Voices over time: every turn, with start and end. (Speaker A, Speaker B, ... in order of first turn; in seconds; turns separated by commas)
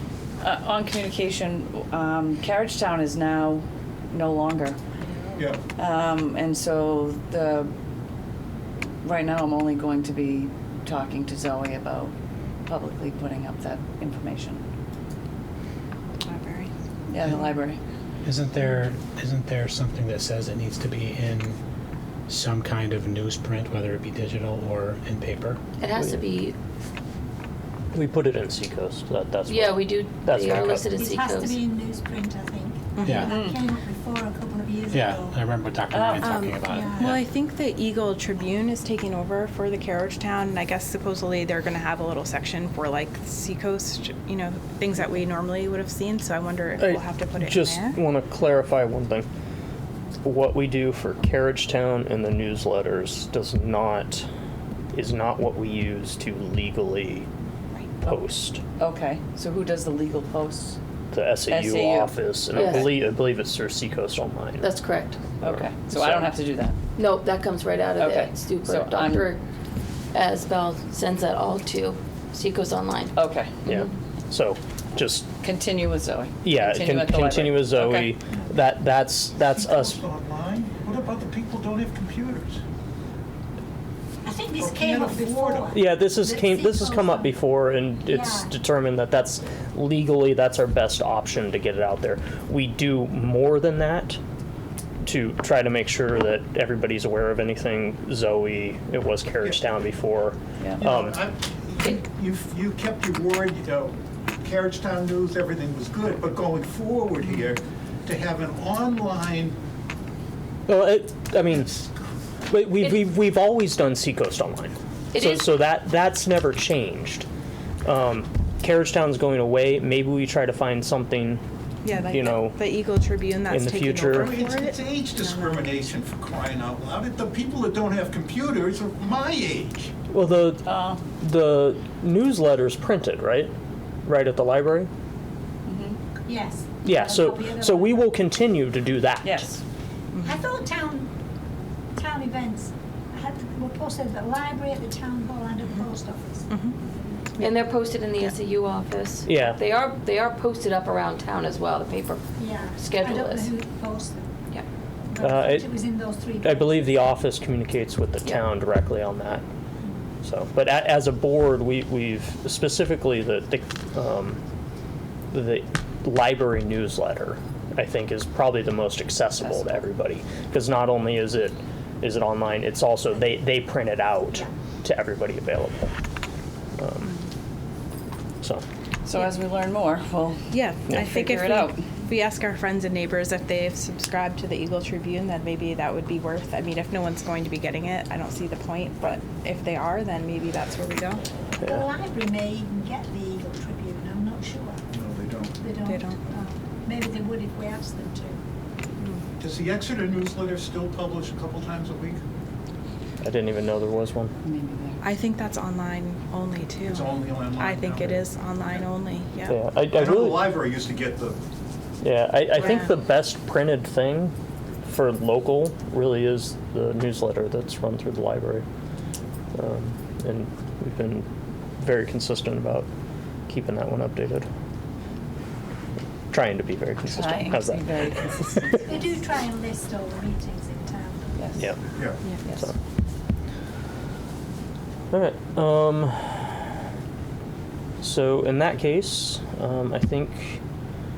Speaker A: 0.4-4.8, Speaker A: 5.8-7.7, Speaker A: 9.0-12.1, Speaker A: 12.7-14.6, Speaker B: 16.2-16.7, Speaker A: 17.1-17.8, Speaker C: 18.2-21.6, Speaker C: 22.3-25.6, Speaker D: 25.8-26.6, Speaker E: 25.9-26.2, Speaker E: 27.9-30.9, Speaker D: 29.5-31.6, Speaker F: 30.9-35.4, Speaker B: 33.0-33.3, Speaker C: 33.0-33.3, Speaker A: 33.3-33.6, Speaker C: 34.9-37.2, Speaker A: 35.9-36.3, Speaker B: 36.2-48.0, Speaker F: 36.7-37.1, Speaker E: 46.8-49.3, Speaker E: 50.2-54.3, Speaker E: 54.9-57.3, Speaker E: 58.0-58.6, Speaker A: 58.8-60.8, Speaker E: 61.1-64.7, Speaker A: 61.5-62.9, Speaker D: 62.5-63.0, Speaker D: 64.6-65.3, Speaker E: 65.4-66.3, Speaker A: 65.4-66.8, Speaker D: 67.0-69.4, Speaker A: 68.0-69.3, Speaker D: 70.1-73.1, Speaker A: 73.2-73.6, Speaker E: 73.7-75.3, Speaker A: 75.4-78.1, Speaker E: 76.4-80.0, Speaker G: 79.4-82.6, Speaker F: 84.2-87.4, Speaker G: 84.6-85.8, Speaker E: 85.7-94.2, Speaker F: 88.1-88.5, Speaker E: 95.0-101.2, Speaker G: 100.8-109.6, Speaker E: 110.7-111.7, Speaker G: 111.6-111.9, Speaker E: 112.5-117.3, Speaker D: 115.1-115.5, Speaker E: 117.8-121.4, Speaker B: 121.8-125.8, Speaker E: 122.0-122.6, Speaker E: 123.5-124.4, Speaker G: 124.0-129.9, Speaker E: 130.1-130.7, Speaker A: 130.7-131.0, Speaker E: 131.2-133.5, Speaker E: 134.1-134.9, Speaker A: 135.7-136.0, Speaker F: 136.3-138.1, Speaker E: 136.8-139.5, Speaker A: 139.2-139.6, Speaker F: 140.2-141.1, Speaker F: 141.9-146.5, Speaker B: 146.5-146.8, Speaker D: 147.4-152.2, Speaker E: 149.3-149.6, Speaker F: 152.4-154.3, Speaker D: 152.8-153.5, Speaker F: 155.1-157.0, Speaker E: 155.2-155.7, Speaker E: 156.4-159.4, Speaker D: 158.2-158.5, Speaker E: 160.2-164.4, Speaker E: 165.3-175.9, Speaker A: 169.4-169.8, Speaker E: 176.8-177.1, Speaker A: 179.1-181.8, Speaker B: 180.5-191.2, Speaker F: 191.6-194.8, Speaker G: 194.9-195.7, Speaker F: 195.6-198.4, Speaker B: 195.8-196.2, Speaker G: 199.4-202.2, Speaker E: 203.2-204.3, Speaker A: 204.4-205.0, Speaker B: 205.0-209.6, Speaker G: 206.9-208.8, Speaker E: 209.5-210.6, Speaker G: 209.9-211.4, Speaker E: 212.0-214.3, Speaker B: 212.5-212.9, Speaker E: 214.8-218.7, Speaker E: 219.6-221.2, Speaker E: 221.8-222.9, Speaker E: 223.5-224.5, Speaker E: 226.3-228.8, Speaker A: 227.1-228.8, Speaker F: 228.8-231.3, Speaker A: 231.4-231.7, Speaker E: 232.4-232.7, Speaker E: 235.1-236.6, Speaker E: 238.0-240.6